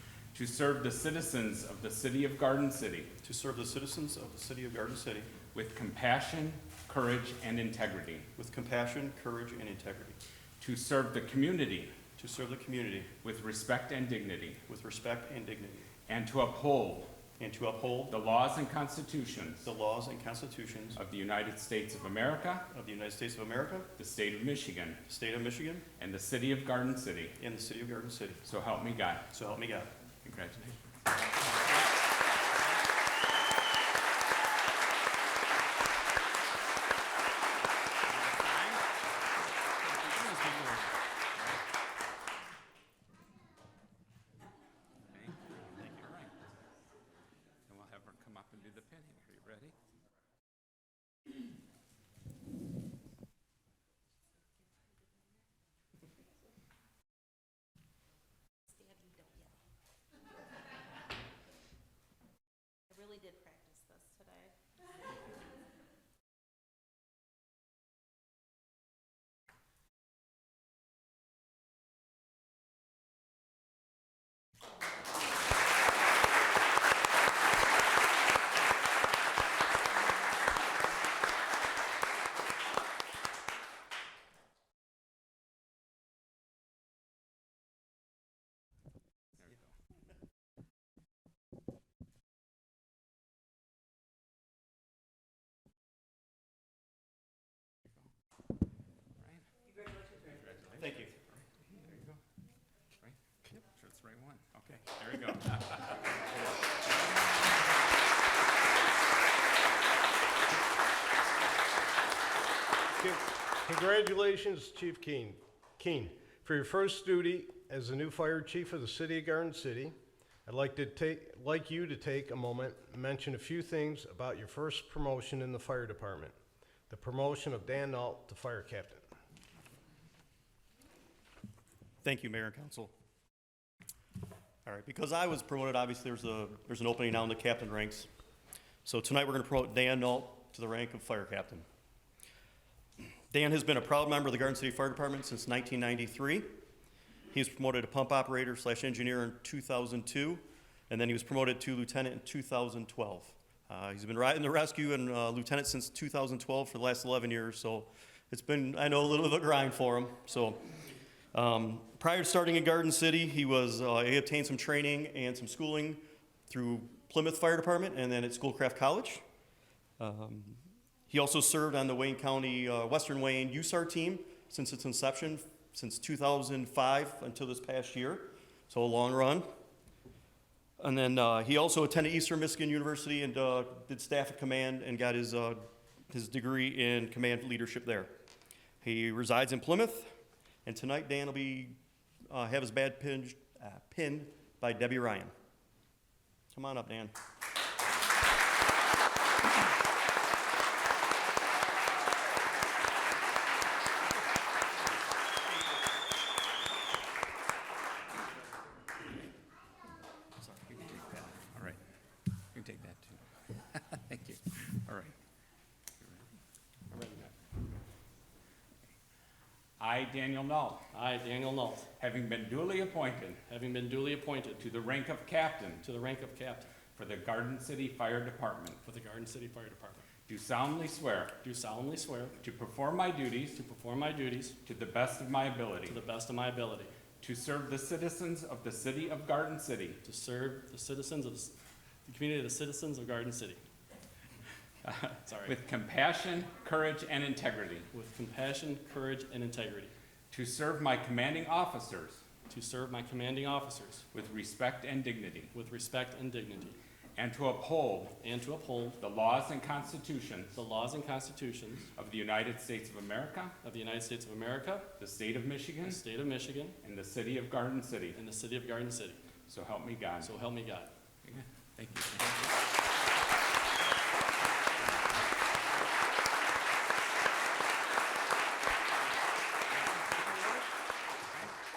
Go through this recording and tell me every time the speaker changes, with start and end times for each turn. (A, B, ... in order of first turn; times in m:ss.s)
0:00.3-0:03.1 A
0:03.2-0:05.3 B
0:05.5-0:08.3 A
0:08.4-0:10.2 B
0:10.6-0:11.9 A
0:12.2-0:13.1 B
0:13.2-0:14.6 A
0:14.7-0:15.9 B
0:16.1-0:17.1 A
0:17.4-0:18.1 B
0:18.1-0:19.7 A
0:19.6-0:21.0 B
0:21.0-0:22.7 A
0:22.7-0:23.9 B
0:24.0-0:25.0 A
0:25.1-0:25.8 B
0:26.0-0:27.3 A
0:27.4-0:28.4 B
0:28.4-0:29.3 A
0:29.3-0:29.9 B
0:30.2-0:30.8 A
0:38.1-0:38.8 A
0:39.8-0:40.8 A
0:40.2-0:40.8 C
0:41.3-0:41.6 A
0:45.1-0:46.3 A
0:47.7-0:49.8 A
0:58.7-0:59.6 D
1:02.9-1:04.5 D
1:39.2-1:39.4 A
1:40.2-1:42.2 A
1:40.8-1:41.1 B
1:43.0-1:46.2 A
1:53.0-1:59.9 E
2:00.4-2:06.3 E
2:06.9-2:09.0 E
2:12.0-2:12.9 B
2:14.6-2:18.1 B
2:18.8-2:21.6 B
2:23.3-2:26.5 B
2:27.3-2:40.6 B
2:41.3-2:49.2 B
2:50.0-2:59.5 B
3:00.8-3:08.1 B
3:08.8-3:10.1 B
3:10.6-3:11.8 B
3:12.3-3:15.3 B
3:16.5-3:17.1 B
3:30.7-3:31.8 A
3:32.5-3:35.1 A
3:36.9-3:37.3 C
3:39.8-3:40.8 A
3:40.9-3:41.9 C
3:42.0-3:43.4 A
3:43.5-3:44.6 C
3:44.6-3:45.8 A
3:45.8-3:46.7 C
3:46.9-3:48.8 A
3:48.8-3:50.0 C
3:50.3-3:51.4 A
3:51.4-3:52.4 C
3:52.4-3:53.6 A
3:53.6-3:54.6 C
3:54.6-3:56.0 A
3:55.9-3:56.9 C
3:57.2-4:00.0 A
4:00.0-4:01.5 C
4:02.0-4:03.6 C
4:04.8-4:07.9 A
4:05.2-4:05.5 C
4:07.9-4:09.9 C
4:10.3-4:12.2 A
4:12.5-4:14.0 C
4:14.1-4:15.5 A
4:15.5-4:16.8 C
4:17.2-4:18.2 A
4:18.2-4:19.0 C
4:19.0-4:20.6 A
4:20.5-4:21.9 C
4:22.0-4:23.5 A
4:23.6-4:24.9 C
4:25.0-4:26.0 A
4:25.8-4:26.8 C
4:26.8-4:28.2 A
4:28.2-4:29.2 C
4:29.5-4:30.3 A
4:30.2-4:30.9 C
4:31.2-4:32.5 A
4:39.7-4:40.3 A
4:40.3-4:40.6 C